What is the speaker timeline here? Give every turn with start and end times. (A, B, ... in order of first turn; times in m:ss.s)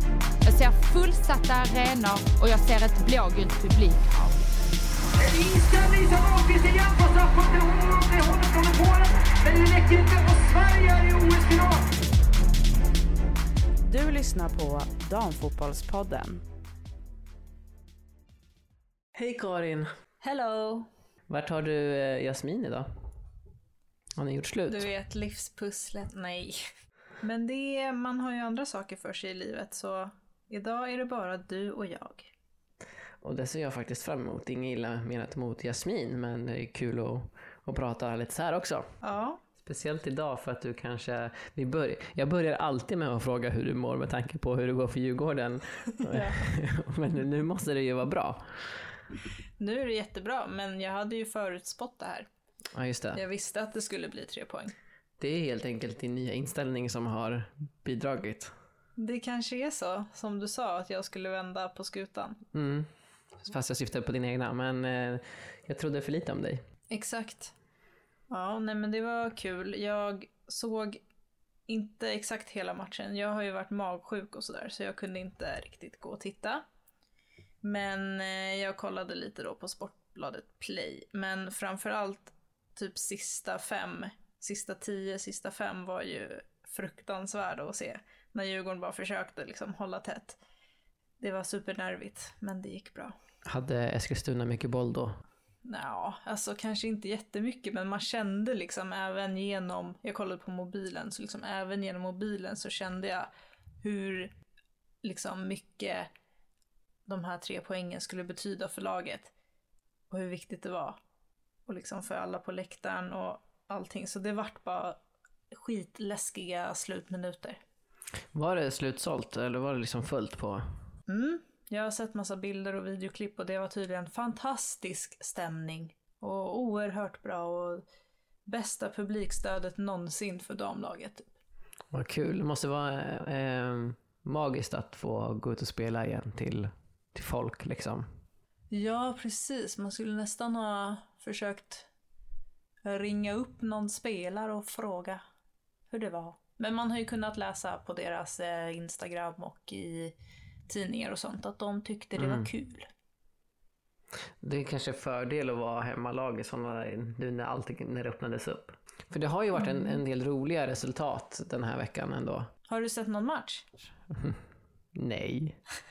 0:00.4-0:04.4 A
0:05.2-0:12.0 B
0:13.8-0:16.4 C
0:19.2-0:19.9 D
0:20.2-0:20.9 E
0:21.3-0:22.9 D
0:24.2-0:24.9 D
0:24.7-0:26.6 E
0:27.2-0:32.3 E
0:33.2-0:38.9 D
0:39.0-0:39.4 E
0:39.6-0:48.9 D
0:46.0-0:46.4 E
0:49.6-0:52.3 E
0:52.7-0:53.2 D
0:53.1-0:54.7 E
0:55.2-0:58.5 D
0:59.0-1:02.4 E
1:02.5-1:02.9 D
1:03.4-1:06.6 D
1:06.9-1:07.5 E
1:08.3-1:11.0 E
1:11.7-1:16.6 E
1:17.6-1:30.4 E
1:31.2-1:33.2 E
1:33.4-1:35.2 D
1:35.7-1:43.3 E
1:43.8-1:44.3 E
1:45.0-1:46.1 E
1:47.1-1:49.3 E
1:50.1-1:51.0 E
1:51.7-1:55.0 E
1:55.5-1:57.6 E
1:58.3-2:00.6 D
2:01.1-2:07.8 E
2:08.5-2:11.3 E
2:11.9-2:18.1 D
2:18.7-2:21.9 E
2:22.8-2:25.2 E
2:25.9-2:30.2 E
2:30.7-2:32.9 E
2:32.2-2:32.5 D
2:34.4-2:42.5 D
2:39.6-2:40.0 E
2:42.7-2:43.9 E
2:44.1-2:44.4 D
2:45.0-2:45.6 D